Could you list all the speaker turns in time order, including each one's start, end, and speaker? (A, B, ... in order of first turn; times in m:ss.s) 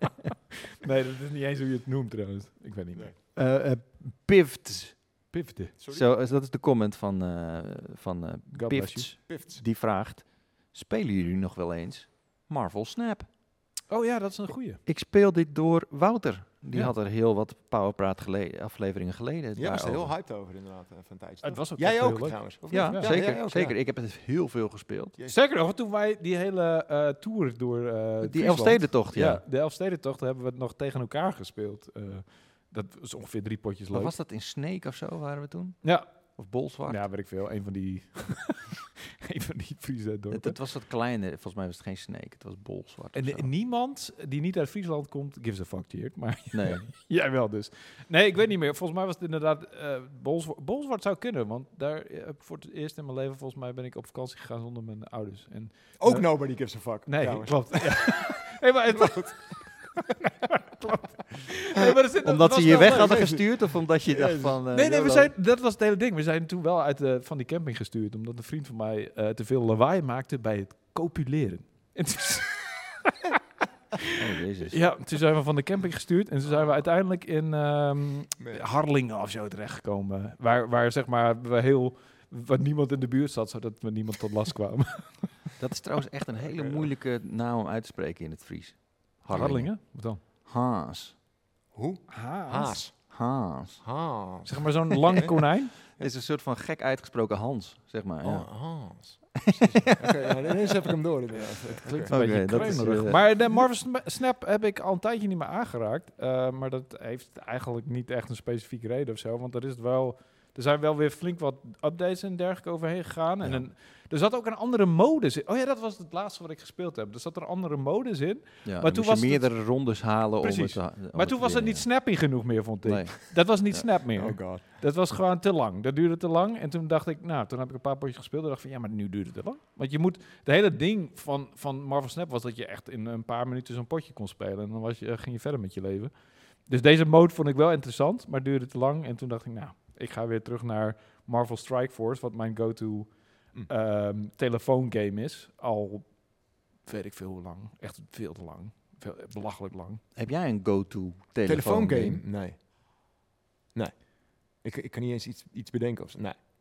0:00.8-0:03.1 A
0:03.4-0:05.3 B
0:05.3-0:05.7 A
0:05.8-0:06.1 C
0:05.9-0:13.3 B
0:08.5-0:09.1 A
0:09.3-0:09.6 C
0:13.9-0:14.8 A
0:14.9-0:20.1 B
0:19.6-0:23.7 C
0:21.4-0:23.3 A
0:22.7-0:25.2 B
0:25.3-0:34.1 A
0:28.2-0:29.4 B
0:33.9-0:37.0 B
0:35.8-0:36.1 A
0:36.9-0:40.6 A
0:40.3-0:43.5 B
0:43.2-1:00.0 A
0:46.5-0:46.9 B
0:56.0-0:58.4 C
0:58.9-1:00.0 C
1:00.7-1:03.4 A
1:02.2-1:05.3 B
1:02.8-1:04.6 C
1:04.7-1:13.3 A
1:14.2-1:14.8 B
1:14.7-1:25.5 A
1:18.4-1:18.6 C
1:25.6-1:31.2 B
1:26.5-1:26.8 C
1:29.3-1:30.2 A
1:31.7-1:33.1 C
1:32.1-1:32.8 A
1:33.1-1:33.8 B
1:33.8-1:35.4 C
1:34.4-1:35.7 A
1:35.9-1:38.7 B
1:38.2-1:43.6 C
1:39.5-1:40.0 B
1:41.8-1:59.6 A
1:42.1-1:43.3 B
1:53.4-1:53.7 B
1:58.6-2:02.0 B
2:00.4-2:30.0 A
2:02.8-2:03.9 B
2:04.2-2:04.6 C
2:30.2-2:32.2 B
2:31.5-2:32.6 C
2:33.7-2:36.4 C